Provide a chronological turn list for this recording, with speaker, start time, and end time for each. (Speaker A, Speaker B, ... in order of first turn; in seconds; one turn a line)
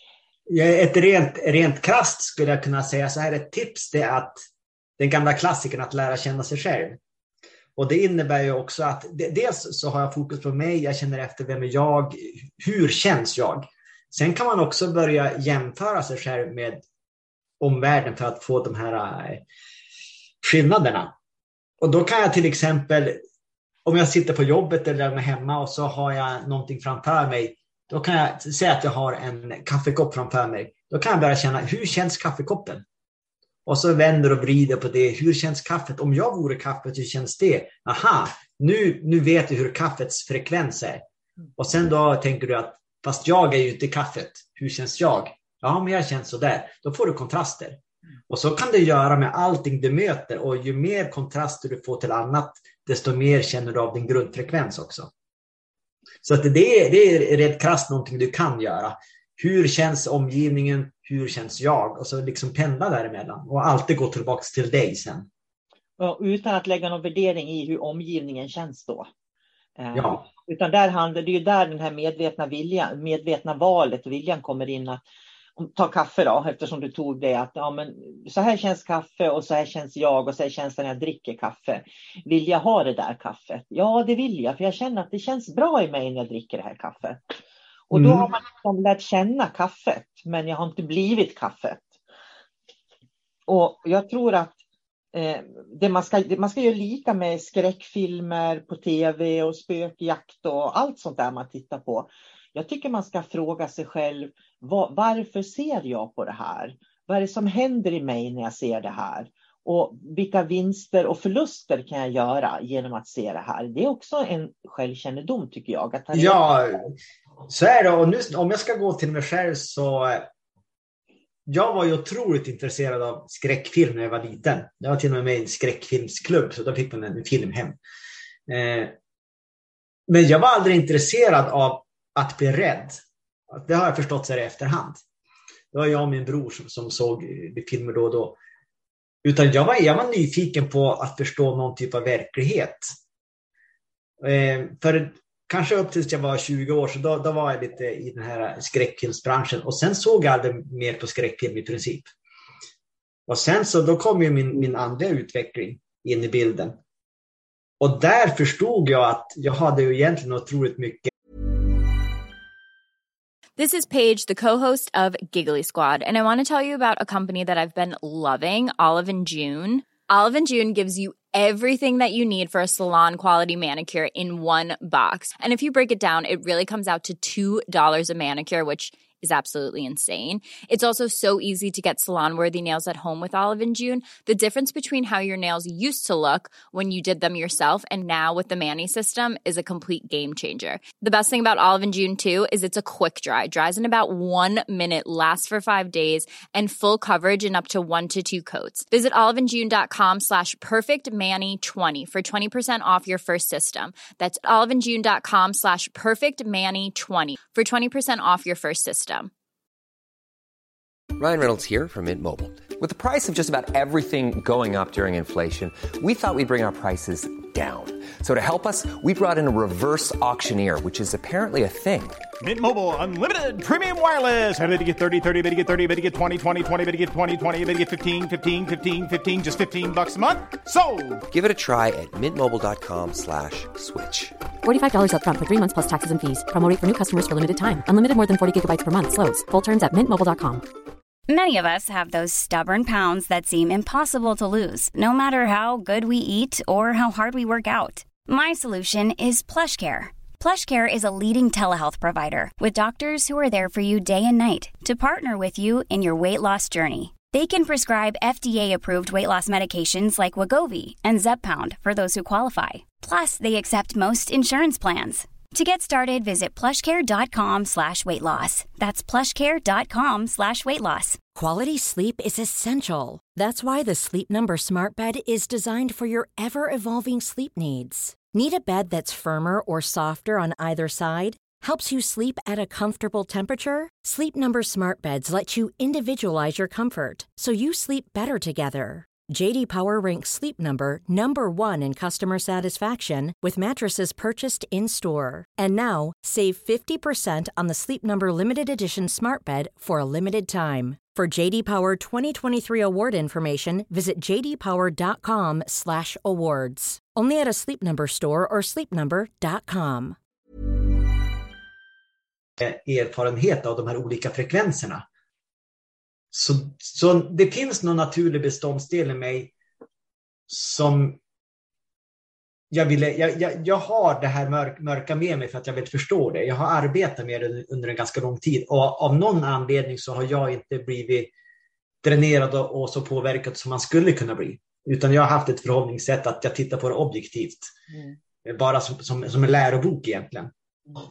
Speaker A: 0.5-4.4
Speaker A: 5.0-7.0
Speaker A: 7.8-16.9
Speaker A: 17.6-19.4
Speaker A: 20.4-21.1
Speaker A: 21.8-23.2
Speaker A: 23.9-32.9
Speaker A: 33.6-41.0
Speaker A: 41.6-55.1
Speaker A: 56.2-65.3
Speaker B: 66.0-69.1
Speaker B: 69.8-75.0
Speaker A: 69.9-70.2
Speaker B: 75.6-87.3
Speaker B: 87.9-91.9
Speaker A: 87.9-88.3
Speaker B: 93.5-94.6
Speaker B: 95.1-116.4
Speaker A: 116.1-116.9
Speaker A: 117.5-120.3
Speaker A: 121.5-127.8
Speaker A: 128.5-128.9
Speaker A: 130.1-133.0
Speaker A: 133.5-135.0
Speaker A: 135.7-138.4
Speaker A: 139.2-142.9
Speaker A: 144.2-152.1
Speaker A: 153.3-156.8
Speaker A: 157.8-161.1
Speaker C: 163.6-209.3
Speaker D: 211.2-222.2
Speaker E: 222.4-231.2
Speaker D: 231.3-234.4
Speaker F: 234.6-240.6
Speaker G: 241.3-271.2
Speaker H: 271.3-310.1
Speaker A: 312.6-315.0
Speaker A: 316.3-319.5
Speaker A: 320.5-321.2
Speaker A: 322.7-331.3
Speaker A: 332.0-337.7
Speaker B: 337.9-338.2
Speaker A: 338.4-340.5